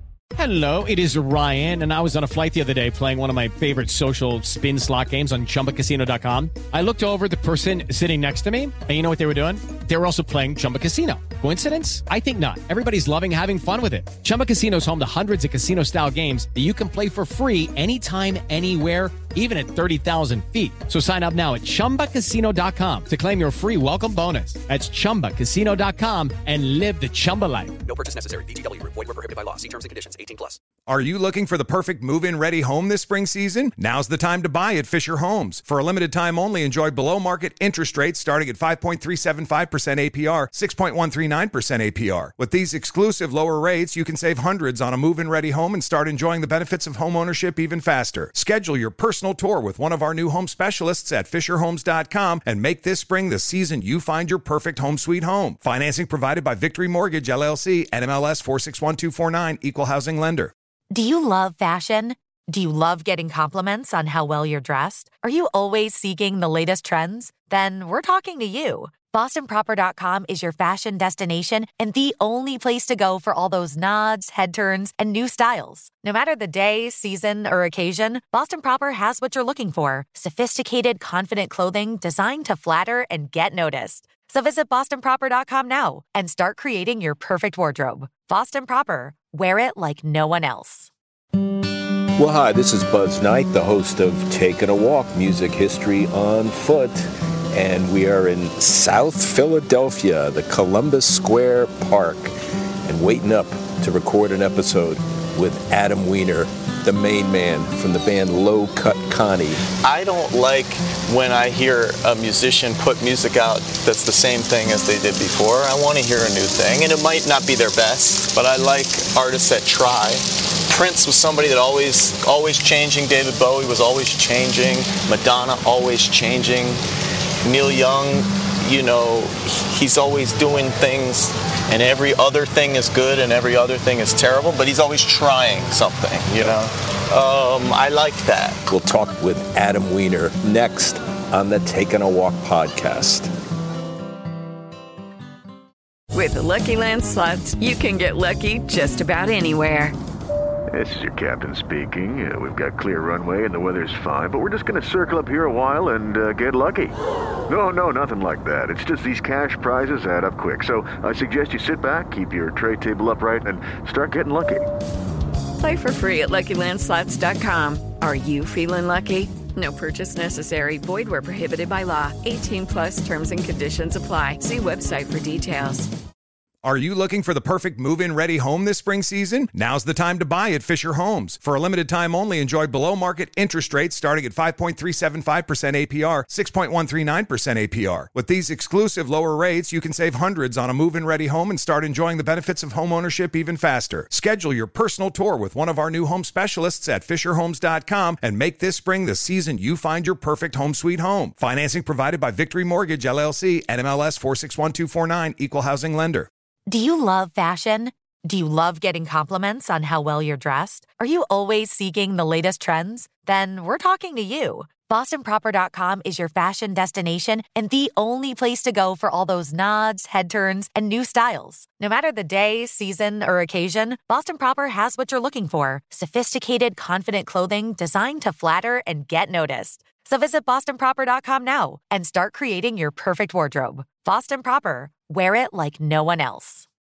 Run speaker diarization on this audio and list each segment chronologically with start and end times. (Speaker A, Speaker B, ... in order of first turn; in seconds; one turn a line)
Speaker A: 0.3-27.9
Speaker B: 27.9-30.6
Speaker C: 30.9-60.5
Speaker D: 60.9-90.9
Speaker E: 92.2-102.3
Speaker E: 102.9-109.6
Speaker F: 110.3-120.2
Speaker F: 120.7-126.7
Speaker F: 127.5-138.5
Speaker E: 138.7-143.3
Speaker G: 146.1-150.0
Speaker H: 150.7-157.0
Speaker H: 157.5-164.7
Speaker G: 165.6-175.9
Speaker C: 176.6-206.3
Speaker D: 206.7-236.7